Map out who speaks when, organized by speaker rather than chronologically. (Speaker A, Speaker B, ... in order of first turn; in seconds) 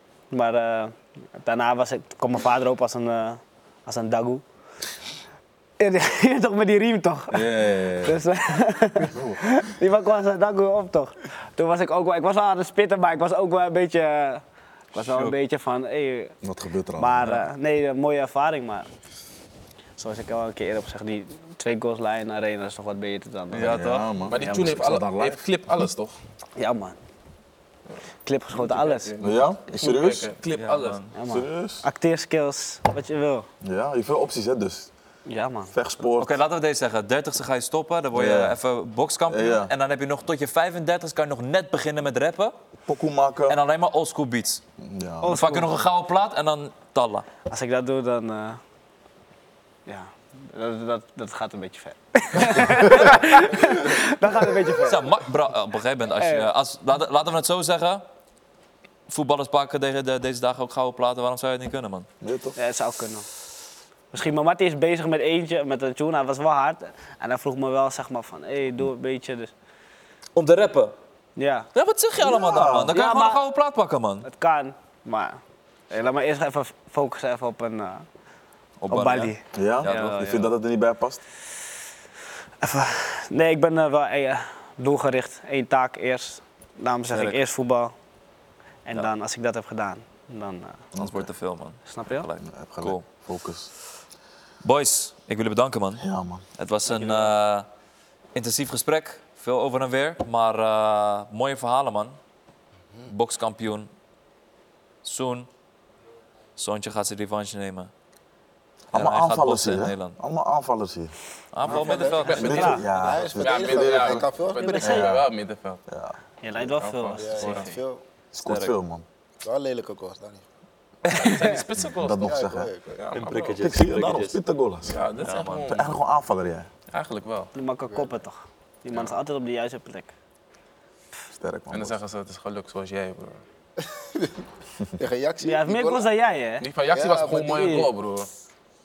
Speaker A: 0.3-4.4, 5.8-14.4, 14.9-16.3, 17.0-18.9, 20.0-24.8, 26.6-27.0, 28.2-29.1, 31.1-33.5, 35.2-35.7, 45.2-45.9, 47.5-48.6, 49.9-55.3, 56.1-56.5, 62.5-63.3, 64.1-69.5, 71.4-71.7, 72.9-73.5, 74.2-75.4, 75.9-78.0, 78.9-80.4, 82.6-87.9, 88.8-90.9, 91.8-92.3, 96.9-97.3, 111.6-112.8, 114.5-115.2, 116.4-117.8, 121.2-121.6, 127.5-130.1, 135.4-136.7, 137.5-137.9
Speaker B: 7.3-8.2, 9.0-9.7, 16.4-17.4, 23.5-25.4, 29.2-30.3, 31.2-31.9, 33.6-34.9, 35.7-36.4, 38.1-38.6, 39.3-39.7, 42.9-43.6, 44.8-45.4, 53.6-53.9, 62.2-62.5, 72.2-72.9, 79.5-81.2, 90.9-91.3, 92.4-93.7, 96.0-96.4, 108.9-111.1, 112.3-114.2, 114.8-115.3, 115.9-116.2, 118.3-119.0, 121.8-122.7, 123.6-125.0, 125.6-126.7, 131.3-132.0
Speaker C: 15.0-15.3, 23.5-24.1, 30.6-31.1, 36.2-42.5, 43.5-44.6, 45.3-47.3, 54.7-58.0, 59.1-62.1, 70.3-70.9, 71.7-74.2, 78.8-80.4, 87.1-87.4, 91.0-93.0, 94.6-97.7, 98.3-102.2, 103.1-103.9, 105.0-105.5, 106.5-107.9, 108.9-110.2, 111.5-112.8, 118.4-118.7, 123.1-124.4, 125.2-125.8
Speaker D: 24.3-26.1, 28.5-31.0, 112.2-112.7, 113.3-115.8, 116.6-117.7, 121.1-122.4, 122.9-123.7, 124.8-126.0, 126.9-127.5, 128.9-129.2, 131.7-133.4, 136.6-138.3
Speaker E: 111.7-115.1, 117.2-118.0, 119.4-120.5, 122.2-123.0, 133.9-134.3, 134.9-136.1, 136.9-137.7